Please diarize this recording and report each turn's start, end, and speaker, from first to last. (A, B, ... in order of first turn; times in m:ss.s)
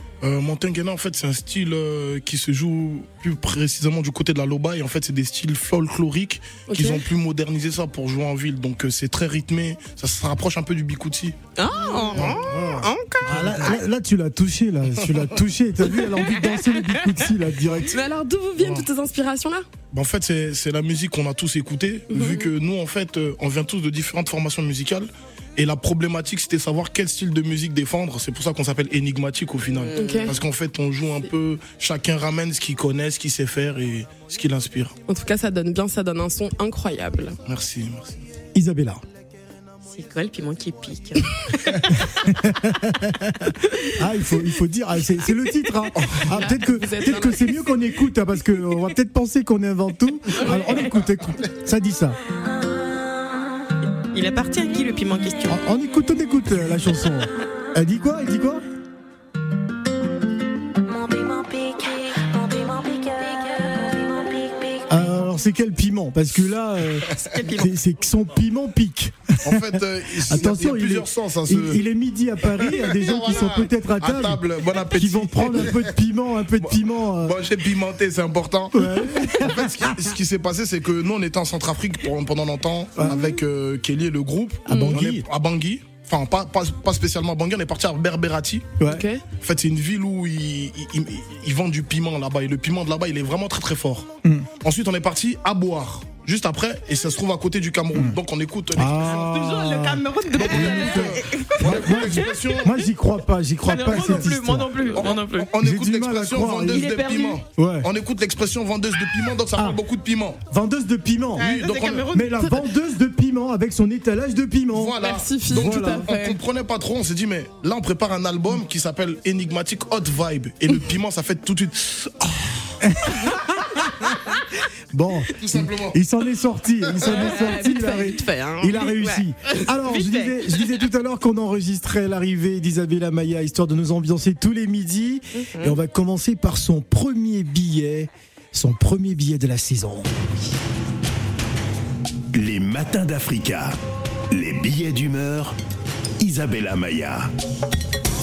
0:00.2-0:11.4 A
0:06.7-0:07.0 B
0:11.6-0:12.5 B
0:11.6-0:13.8 C
0:12.1-0:12.8 A
0:12.2-0:18.0 D
0:15.9-0:17.2 B
0:17.9-0:19.7 B
0:18.6-0:18.9 A
0:19.9-0:35.0 A
0:22.1-0:22.5 B
0:29.7-0:30.4 C
0:30.0-0:30.4 B
0:35.1-0:37.4 B
0:37.4-0:38.2 A
0:38.5-0:39.0 D
0:39.9-0:42.0 C
0:42.2-0:52.2 D
0:46.0-0:46.4 A
0:46.3-0:47.9 B
0:50.4-0:51.0 B
0:52.6-0:53.4 E
0:54.1-0:55.6 C
0:55.5-0:58.6 D
1:00.8-1:05.0 E
1:04.9-1:17.4 D
1:07.1-1:07.7 C
1:09.4-1:11.8 A
1:12.6-1:15.9 A
1:16.6-1:28.8 A
1:18.7-1:20.1 D
1:23.0-1:23.3 D
1:24.7-1:25.2 D
1:24.7-1:25.0 B
1:28.8-1:29.1 D
1:28.8-1:29.2 B
1:29.4-1:39.4 A
1:38.8-1:46.9 D
1:39.0-1:42.7 C
1:40.3-1:42.8 A
1:43.6-1:45.5 C
1:43.9-1:44.3 A
1:44.9-1:50.4 A
1:46.7-1:47.4 C
1:47.5-1:47.9 D
1:50.5-1:51.6 D
1:51.4-1:52.1 A
1:51.4-1:52.4 C
1:52.1-1:56.1 D
1:54.7-2:02.8 A
1:55.0-1:56.4 B
2:02.8-2:04.1 D
2:04.9-2:20.1 D
2:05.4-2:06.0 A
2:07.0-2:09.0 B
2:08.8-2:10.7 C
2:15.4-2:15.8 C
2:22.3-2:23.8 F
2:24.3-2:25.6 F
2:26.2-2:27.3 F